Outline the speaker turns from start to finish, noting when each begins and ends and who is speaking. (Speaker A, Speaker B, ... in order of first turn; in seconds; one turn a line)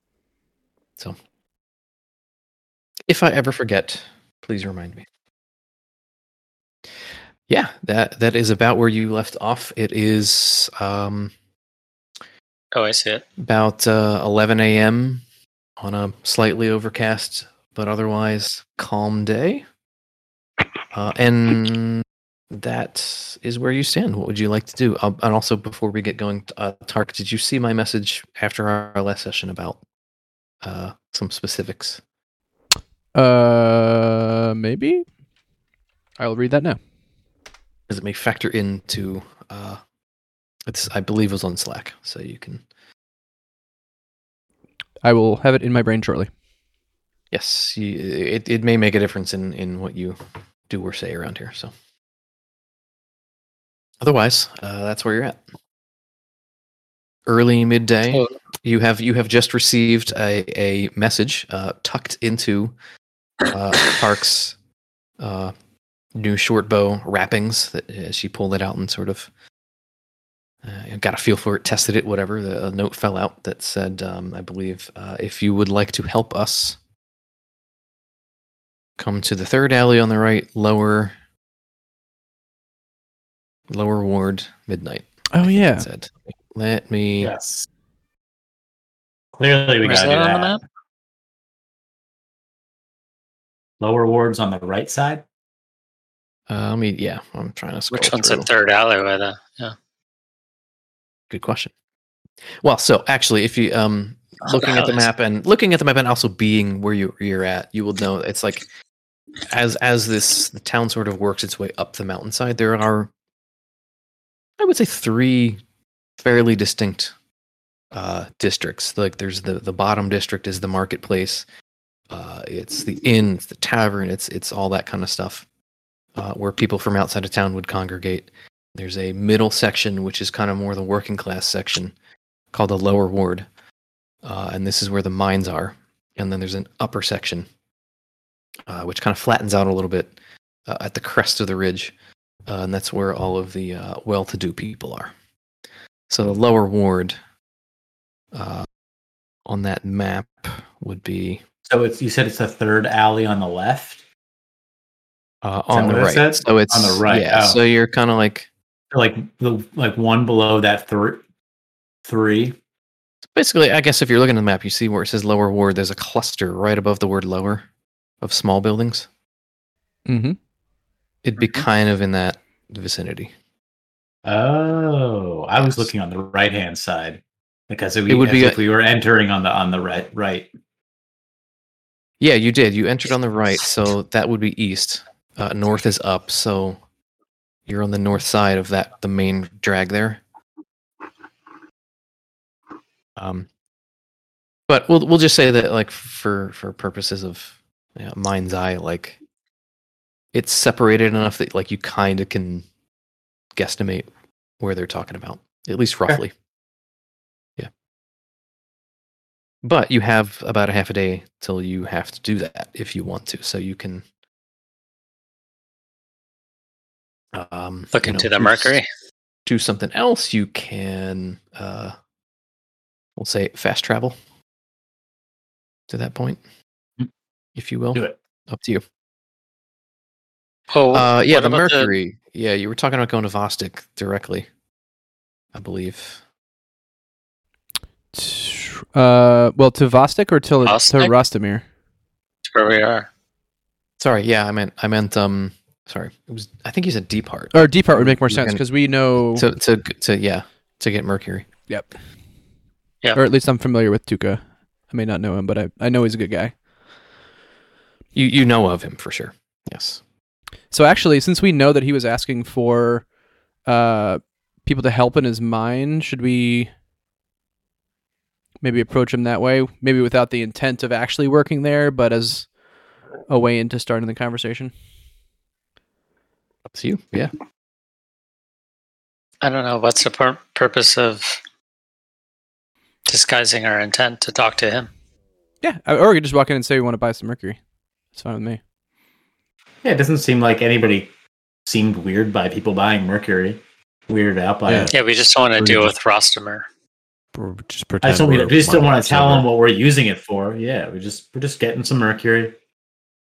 Speaker A: 3.1-5.1
Speaker A: 7.5-11.3
Speaker B: 12.7-13.3
Speaker A: 13.4-15.2
Speaker A: 15.8-19.6
Speaker A: 20.9-29.8
Speaker A: 30.6-32.0
Speaker C: 33.1-35.1
Speaker C: 36.2-36.8
Speaker A: 37.9-39.8
Speaker A: 40.7-42.6
Speaker C: 45.0-46.3
Speaker A: 47.3-50.2
Speaker A: 50.7-51.7
Speaker A: 54.0-55.4
Speaker A: 57.3-62.7
Speaker A: 63.4-64.6
Speaker A: 65.2-65.5
Speaker A: 66.2-69.3
Speaker A: 70.6-76.8
Speaker A: 79.0-81.2
Speaker A: 83.7-87.3
Speaker C: 85.3-85.9
Speaker D: 87.2-87.7
Speaker D: 89.3-90.6
Speaker B: 89.8-90.6
Speaker D: 93.8-95.2
Speaker A: 96.5-98.5
Speaker B: 97.9-99.8
Speaker A: 101.3-101.7
Speaker A: 102.6-108.7
Speaker B: 104.6-104.9
Speaker A: 109.5-113.1
Speaker A: 114.6-115.6
Speaker A: 116.2-117.2
Speaker A: 117.9-121.5
Speaker A: 122.1-125.5
Speaker A: 126.2-131.9
Speaker A: 132.5-133.5
Speaker A: 134.2-137.5
Speaker A: 138.7-140.1
Speaker A: 140.7-141.9
Speaker A: 142.5-145.1
Speaker A: 146.1-147.2
Speaker A: 148.3-148.7
Speaker A: 149.5-151.4
Speaker D: 151.7-154.0
Speaker A: 155.4-158.5
Speaker D: 155.7-157.6
Speaker D: 158.9-161.2
Speaker D: 162.1-162.6
Speaker A: 163.3-167.7
Speaker A: 168.2-169.1
Speaker C: 170.1-170.4
Speaker A: 171.2-173.3
Speaker D: 174.2-180.5
Speaker A: 178.1-178.6
Speaker A: 182.2-186.8
Speaker A: 187.7-190.2
Speaker A: 193.2-193.5
Speaker A: 194.7-199.2
Speaker A: 200.3-202.7
Speaker A: 203.5-204.1
Speaker A: 204.6-206.3
Speaker A: 209.6-214.1
Speaker A: 217.3-218.8
Speaker B: 217.9-218.9
Speaker A: 219.5-222.0
Speaker A: 223.2-224.2
Speaker A: 225.9-226.4
Speaker A: 227.6-228.8
Speaker B: 230.7-231.9
Speaker A: 230.9-234.5
Speaker A: 235.5-236.2
Speaker C: 238.1-241.7
Speaker B: 240.6-241.1
Speaker B: 242.4-243.1
Speaker A: 244.0-248.7
Speaker C: 247.5-249.5
Speaker A: 249.3-251.5
Speaker C: 251.7-252.0
Speaker C: 253.2-256.6
Speaker A: 258.1-260.0
Speaker C: 260.7-263.1
Speaker C: 263.6-266.7
Speaker C: 268.6-272.6
Speaker C: 273.3-274.7
Speaker A: 276.7-277.3
Speaker B: 279.4-281.4
Speaker B: 283.1-284.9
Speaker C: 285.6-287.6
Speaker C: 288.1-288.6
Speaker D: 289.8-291.1
Speaker D: 291.7-294.9
Speaker E: 294.7-295.9
Speaker B: 294.9-296.7
Speaker E: 297.4-299.5
Speaker D: 298.0-302.6